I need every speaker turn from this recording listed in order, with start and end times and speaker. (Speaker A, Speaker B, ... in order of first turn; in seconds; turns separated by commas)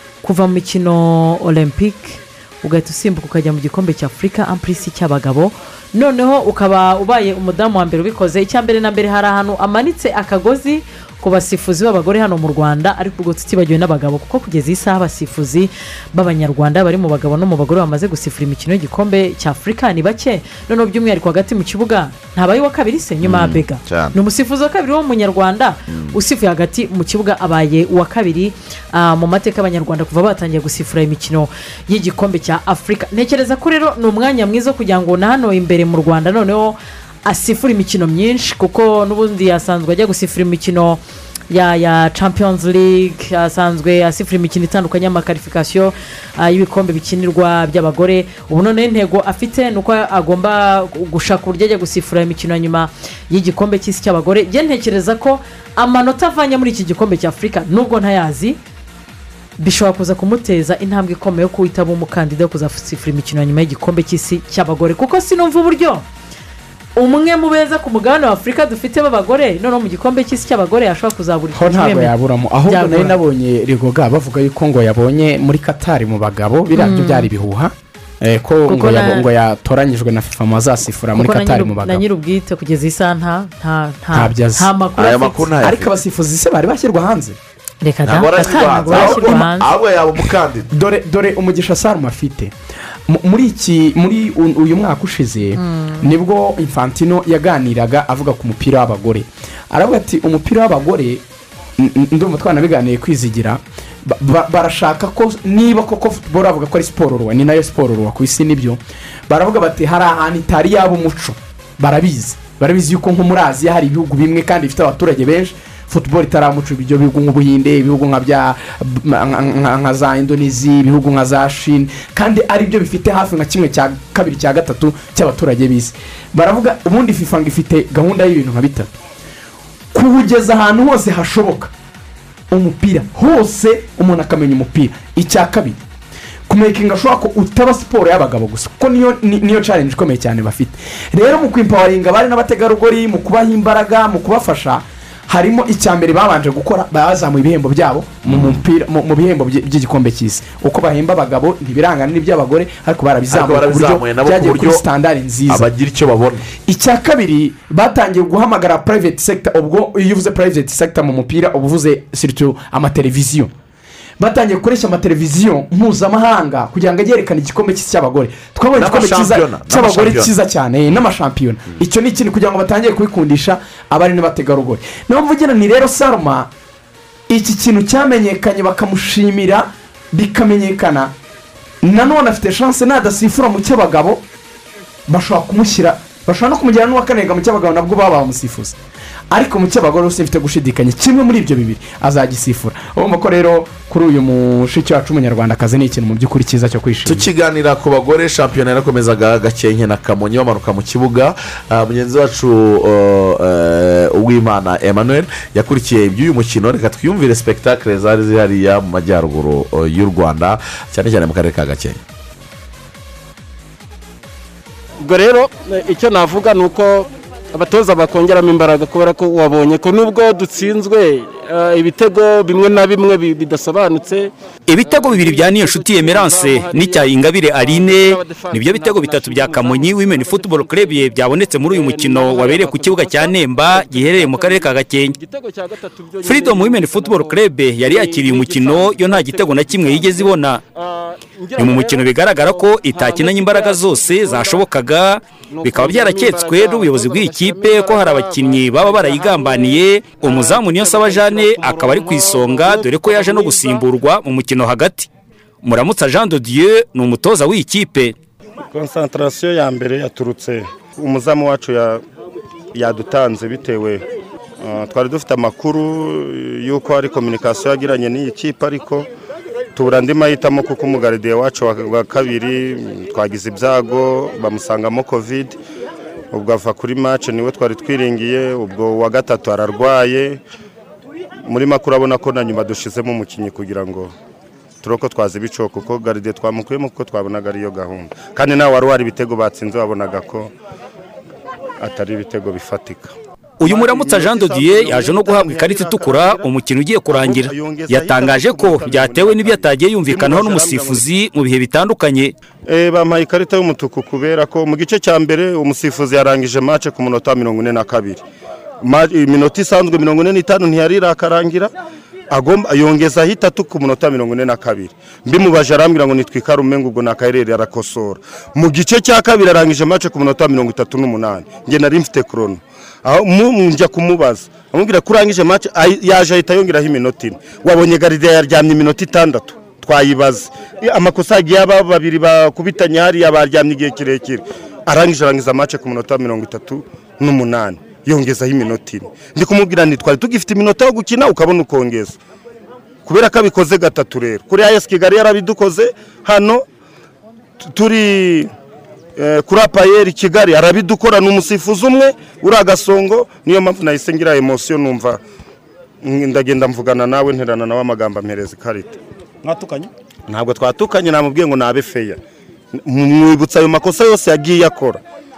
Speaker A: 0.2-58.6, Speaker B: 23.2-24.1, Speaker B: 25.9-26.1, Speaker A: 59.6-66.0, Speaker A: 67.0-72.1, Speaker C: 71.5-82.0, Speaker A: 72.7-73.2, Speaker A: 76.7-77.3, Speaker A: 78.7-79.3, Speaker A: 81.1-85.4, Speaker C: 84.1-84.7, Speaker B: 85.0-86.0, Speaker C: 85.6-87.4, Speaker A: 87.8-89.7, Speaker B: 88.0-90.7, Speaker C: 88.9-89.5, Speaker C: 90.7-92.5, Speaker C: 93.1-101.2, Speaker A: 95.6-96.1, Speaker C: 101.8-128.9, Speaker C: 129.9-131.7, Speaker C: 132.5-135.8, Speaker C: 136.5-155.7, Speaker B: 148.2-148.6, Speaker B: 153.3-154.8, Speaker B: 155.5-156.5, Speaker C: 156.6-163.5, Speaker C: 164.2-176.5, Speaker B: 168.7-170.3, Speaker C: 177.3-181.1, Speaker C: 181.8-184.2, Speaker C: 185.1-188.8, Speaker C: 189.3-197.3, Speaker B: 197.0-212.0, Speaker D: 215.0-244.7, Speaker E: 224.7-235.2, Speaker E: 236.2-240.6, Speaker E: 241.6-255.1, Speaker D: 245.5-253.9, Speaker E: 255.6-258.1, Speaker F: 258.7-262.0, Speaker F: 262.7-264.0, Speaker F: 264.6-269.1, Speaker F: 269.8-275.6, Speaker F: 276.3-280.4, Speaker F: 281.5-284.1, Speaker F: 284.8-290.5, Speaker F: 291.8-296.4, Speaker E: 293.6-302.3, Speaker F: 297.1-301.0, Speaker F: 302.7-308.2, Speaker F: 308.8-311.7, Speaker F: 312.3-342.2, Speaker F: 343.1-346.6, Speaker F: 347.6-348.5, Speaker F: 349.2-355.2, Speaker F: 356.0-362.2, Speaker F: 362.8-365.0